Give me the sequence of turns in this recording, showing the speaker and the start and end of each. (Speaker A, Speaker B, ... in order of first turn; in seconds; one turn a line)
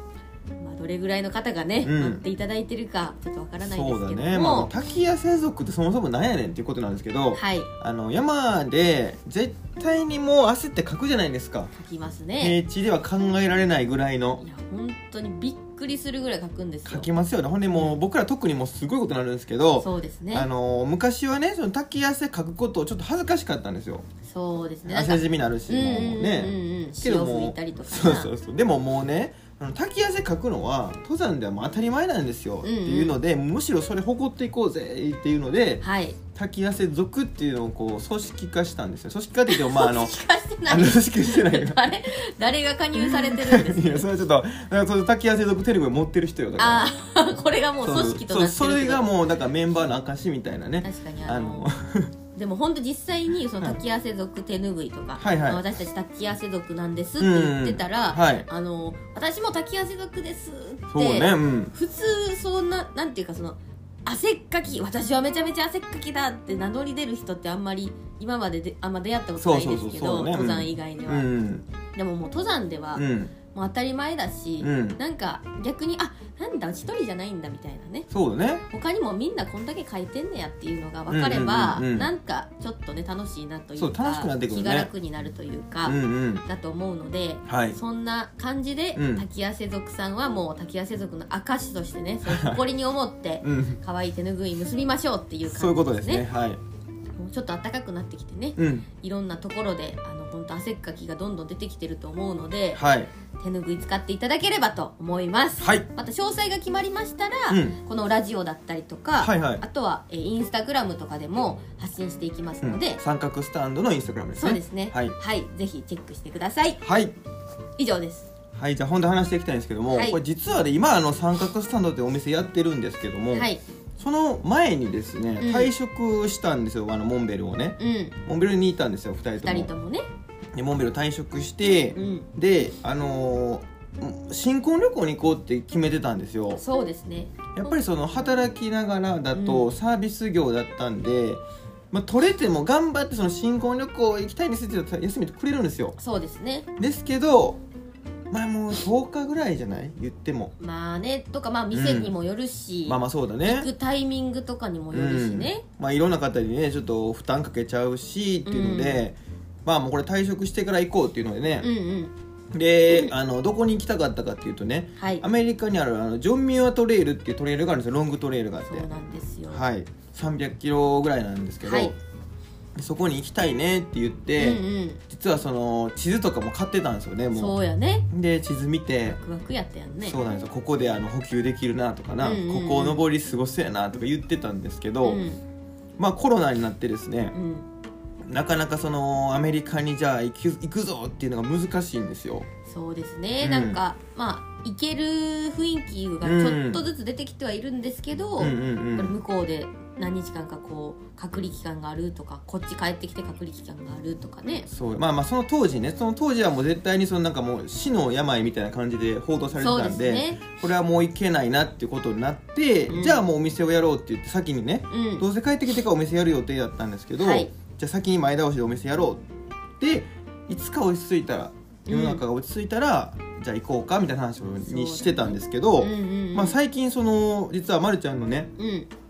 Speaker A: 0.6-4.7
Speaker B: 1.8-2.2
Speaker B: 3.6-11.7
Speaker A: 7.3-7.7
Speaker A: 11.7-12.6
Speaker B: 12.4-14.4
Speaker A: 14.4-17.1
Speaker B: 16.9-24.0
Speaker A: 19.8-20.5
Speaker A: 24.2-28.3
Speaker B: 24.9-35.8
Speaker A: 32.6-33.2
Speaker A: 35.8-36.2
Speaker B: 36.4-40.1
Speaker A: 39.5-44.1
Speaker B: 40.7-41.9
Speaker B: 43.0-46.9
Speaker A: 46.6-49.1
Speaker B: 47.8-52.1
Speaker A: 50.8-51.7
Speaker A: 52.4-71.3
Speaker B: 55.2-55.6
Speaker B: 57.2-58.5
Speaker B: 60.9-61.7
Speaker B: 69.4-71.7
Speaker A: 71.9-78.1
Speaker B: 73.0-73.3
Speaker B: 74.6-75.0
Speaker B: 78.1-78.6
Speaker A: 78.7-96.2
Speaker B: 81.1-82.1
Speaker B: 83.8-84.9
Speaker B: 85.8-86.5
Speaker B: 87.5-87.8
Speaker B: 89.0-89.2
Speaker B: 92.2-92.6
Speaker B: 93.4-93.8
Speaker B: 95.5-96.6
Speaker A: 97.2-102.8
Speaker B: 98.6-98.9
Speaker B: 102.8-103.1
Speaker A: 103.4-113.0
Speaker B: 105.6-105.9
Speaker B: 107.5-107.8
Speaker B: 109.2-109.6
Speaker B: 112.6-115.2
Speaker A: 114.4-116.8
Speaker B: 116.8-117.2
Speaker A: 117.8-118.3
Speaker B: 118.5-129.7
Speaker A: 119.9-120.2
Speaker A: 123.3-123.6
Speaker A: 125.4-125.7
Speaker A: 127.8-128.2
Speaker A: 129.4-130.1
Speaker B: 130.6-136.6
Speaker A: 131.9-132.3
Speaker A: 136.6-138.4
Speaker B: 137.6-146.0
Speaker A: 139.3-139.7
Speaker A: 146.0-146.7
Speaker B: 146.8-147.6
Speaker B: 148.3-150.5
Speaker A: 150.6-155.6
Speaker B: 151.7-152.2
Speaker B: 152.9-153.7
Speaker B: 154.9-161.7
Speaker A: 158.5-159.0
Speaker A: 161.6-162.1
Speaker B: 162.5-168.9
Speaker A: 165.0-165.2
Speaker A: 168.7-169.7
Speaker B: 169.5-172.0
Speaker A: 171.6-171.9
Speaker B: 172.8-177.6
Speaker A: 174.4-175.0
Speaker A: 177.3-178.1
Speaker B: 178.1-179.2
Speaker A: 179.2-180.2
Speaker B: 180.0-185.2
Speaker A: 182.2-183.1
Speaker A: 185.0-185.4
Speaker B: 186.0-187.3
Speaker A: 187.3-187.7
Speaker B: 188.3-192.5
Speaker A: 192.7-204.7
Speaker B: 193.4-193.8
Speaker B: 196.2-196.8
Speaker B: 198.4-199.1
Speaker B: 204.7-219.2
Speaker A: 209.6-210.4
Speaker A: 212.9-213.2
Speaker A: 214.9-215.3
Speaker A: 217.2-217.5
Speaker B: 219.8-228.5
Speaker A: 221.9-222.2
Speaker A: 224.6-226.6
Speaker A: 228.6-228.9